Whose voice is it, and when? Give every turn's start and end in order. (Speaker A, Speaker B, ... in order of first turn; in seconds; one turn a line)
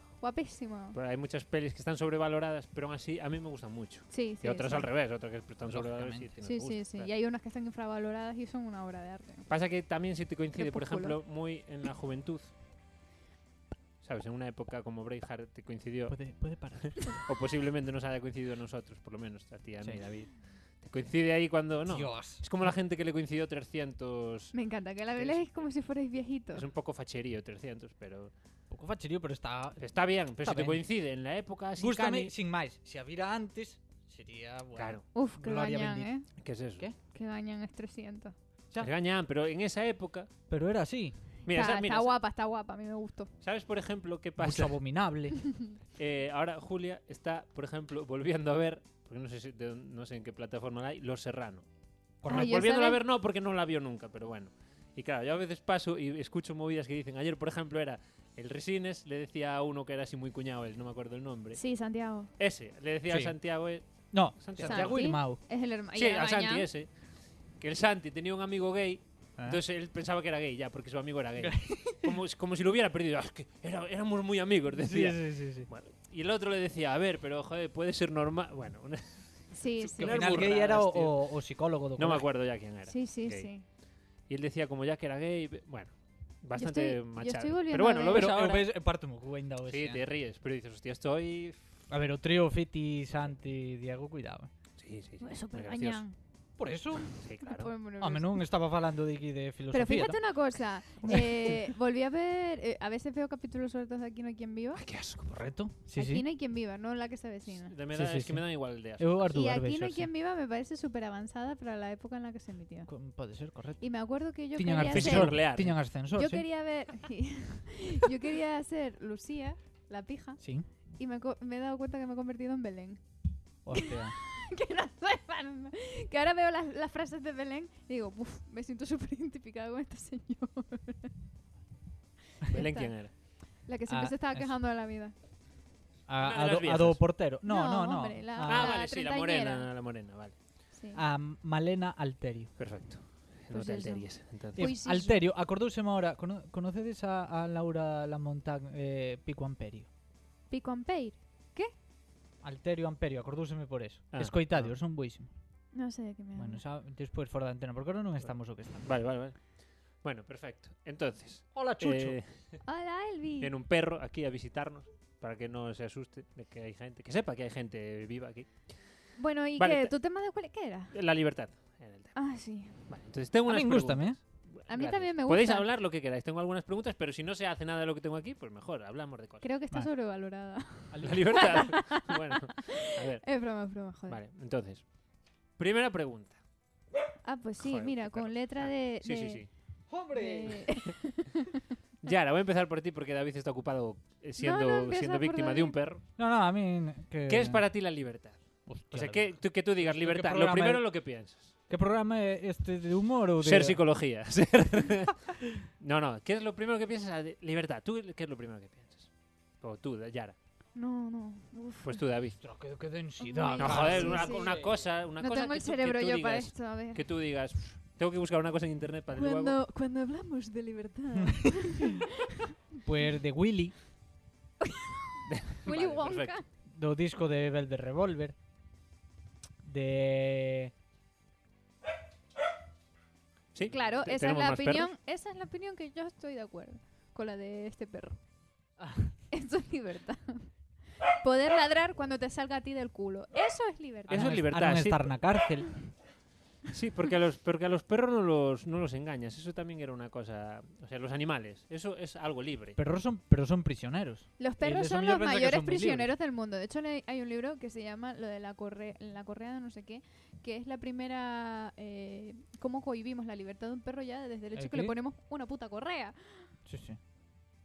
Speaker A: 0.2-1.0
Speaker B: 0.9-7.1
Speaker A: 4.1-4.9
Speaker C: 5.7-6.3
Speaker A: 6.4-9.5
Speaker B: 9.5-12.5
Speaker A: 10.6-11.2
Speaker B: 14.0-20.3
Speaker C: 16.1-17.2
Speaker B: 20.8-24.5
Speaker C: 21.9-22.4
Speaker A: 24.5-26.6
Speaker B: 26.5-28.3
Speaker C: 28.7-30.8
Speaker B: 29.8-32.3
Speaker C: 31.8-36.1
Speaker B: 34.8-35.0
Speaker A: 35.1-36.3
Speaker B: 36.4-36.9
Speaker A: 37.1-38.3
Speaker B: 38.8-40.3
Speaker C: 40.5-41.2
Speaker B: 41.5-42.1
Speaker A: 41.5-43.3
Speaker B: 43.4-44.8
Speaker C: 44.4-45.5
Speaker B: 46.0-51.6
Speaker C: 52.2-52.6
Speaker B: 52.3-61.6
Speaker A: 52.3-53.0
Speaker A: 61.5-62.3
Speaker B: 62.4-65.2
Speaker C: 63.1-63.4
Speaker C: 64.1-65.4
Speaker A: 64.6-66.7
Speaker B: 65.9-66.9
Speaker B: 67.6-81.3
Speaker C: 71.4-72.2
Speaker C: 74.8-75.7
Speaker A: 79.5-80.5
Speaker C: 80.0-82.2
Speaker B: 82.0-83.5
Speaker A: 82.8-83.6
Speaker B: 84.3-88.7
Speaker A: 86.5-88.3
Speaker C: 88.1-90.0
Speaker B: 89.7-91.6
Speaker C: 91.9-94.5
Speaker B: 94.8-96.0
Speaker A: 95.2-96.1
Speaker C: 96.6-97.1
Speaker B: 97.2-97.7
Speaker A: 97.4-98.4
Speaker C: 98.0-100.2
Speaker A: 99.7-104.8
Speaker B: 101.0-101.5
Speaker C: 101.0-101.6
Speaker B: 104.8-105.4
Speaker C: 105.3-106.2
Speaker A: 105.9-107.7
Speaker B: 107.5-109.2
Speaker C: 107.9-110.1
Speaker A: 109.3-112.9
Speaker C: 112.9-113.8
Speaker A: 113.8-115.4
Speaker C: 114.5-116.5
Speaker B: 114.9-115.8
Speaker A: 116.1-120.4
Speaker C: 120.4-120.7
Speaker A: 121.0-123.0
Speaker C: 123.6-124.1
Speaker A: 123.7-131.1
Speaker B: 132.5-133.1
Speaker A: 132.5-132.9
Speaker A: 133.6-135.1
Speaker C: 133.9-134.6
Speaker C: 136.1-138.8
Speaker B: 136.2-137.1
Speaker A: 137.4-139.7
Speaker B: 138.4-140.3
Speaker A: 140.7-141.0
Speaker C: 140.9-142.5
Speaker B: 142.6-144.7
Speaker A: 143.5-145.2
Speaker C: 144.5-149.9
Speaker A: 150.5-151.7
Speaker C: 152.4-155.3
Speaker B: 154.1-154.7
Speaker A: 155.7-156.6
Speaker C: 156.3-158.9
Speaker B: 158.2-159.4
Speaker B: 160.0-162.6
Speaker C: 161.5-162.2
Speaker A: 162.7-163.5
Speaker B: 163.4-168.5
Speaker A: 169.2-170.9
Speaker B: 169.6-169.9
Speaker B: 170.9-172.2
Speaker A: 172.1-172.8
Speaker B: 172.8-179.4
Speaker C: 173.5-174.2
Speaker A: 174.7-175.7
Speaker A: 179.4-184.2
Speaker C: 180.9-181.6
Speaker B: 181.0-184.8
Speaker B: 185.6-186.4
Speaker A: 187.2-189.4
Speaker B: 187.6-189.5
Speaker C: 189.9-190.7
Speaker A: 190.1-191.4
Speaker B: 192.0-196.0
Speaker A: 194.4-195.8
Speaker C: 196.2-197.6
Speaker B: 197.3-201.5
Speaker C: 198.7-200.9
Speaker C: 201.7-203.8
Speaker B: 203.4-209.1
Speaker B: 209.6-210.3
Speaker A: 210.7-212.0
Speaker B: 211.8-212.4
Speaker C: 212.4-214.7
Speaker A: 213.2-214.5
Speaker B: 213.6-219.6
Speaker A: 215.2-217.0
Speaker A: 219.1-222.1
Speaker C: 221.1-221.9
Speaker C: 222.8-223.7
Speaker A: 224.6-226.4
Speaker B: 225.3-226.3
Speaker C: 226.7-228.3
Speaker C: 229.6-230.7
Speaker B: 233.5-234.9
Speaker A: 233.6-238.2
Speaker C: 238.8-239.1
Speaker A: 239.3-240.5
Speaker A: 241.2-244.4
Speaker B: 244.1-245.1
Speaker C: 244.1-245.7
Speaker B: 246.7-252.8
Speaker C: 252.8-256.1
Speaker A: 254.4-266.5
Speaker C: 264.5-264.9
Speaker C: 266.6-267.0